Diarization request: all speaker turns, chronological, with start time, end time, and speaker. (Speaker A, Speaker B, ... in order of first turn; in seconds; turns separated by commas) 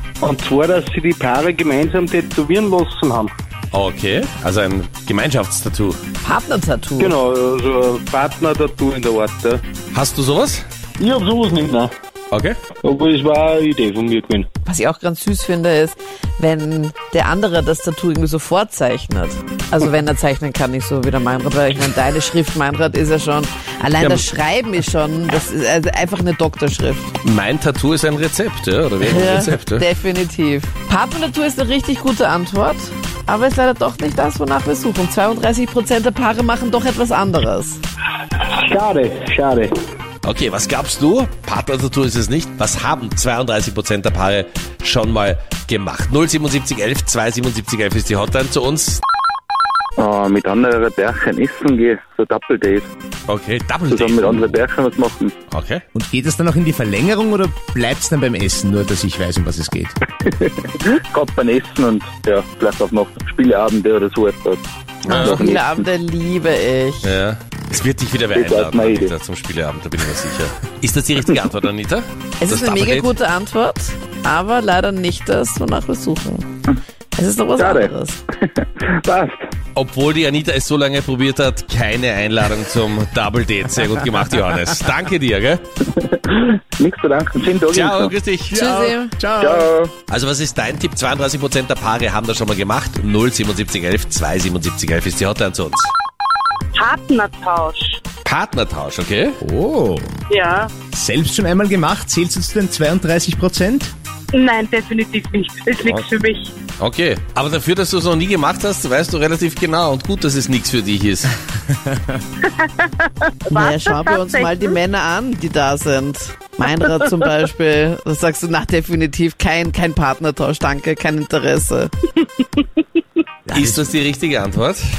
Speaker A: 0.2-3.3, Speaker B: 3.7-6.0, Speaker C: 6.2-7.2, Speaker A: 7.0-9.6, Speaker B: 9.9-10.6, Speaker A: 11.0-11.9, Speaker A: 12.8-14.4, Speaker C: 14.7-27.1, Speaker B: 27.2-29.8, Speaker C: 29.1-37.8, Speaker A: 38.7-39.7, Speaker B: 40.2-49.0, Speaker D: 50.0-52.9, Speaker B: 53.3-54.6, Speaker D: 53.9-55.3, Speaker B: 55.5-55.8, Speaker E: 55.9-60.0, Speaker D: 60.2-65.8, Speaker B: 65.1-65.5, Speaker C: 65.1-67.1, Speaker B: 67.0-73.1, Speaker D: 68.3-69.1, Speaker C: 72.4-76.5, Speaker C: 77.1-78.2, Speaker D: 77.6-79.4, Speaker B: 79.7-85.6, Speaker D: 85.9-88.1, Speaker B: 87.7-88.6, Speaker E: 88.5-89.7, Speaker C: 88.5-89.1, Speaker D: 89.4-89.9, Speaker B: 90.1-95.9, Speaker F: 96.7-98.0, Speaker B: 98.2-99.4, Speaker E: 99.4-100.1, Speaker F: 100.3-100.7, Speaker E: 100.9-103.9, Speaker F: 104.3-106.5, Speaker B: 106.8-111.3, Speaker F: 112.5-114.7, Speaker C: 113.5-121.9, Speaker F: 122.4-122.8, Speaker E: 123.5-123.8, Speaker B: 123.5-124.8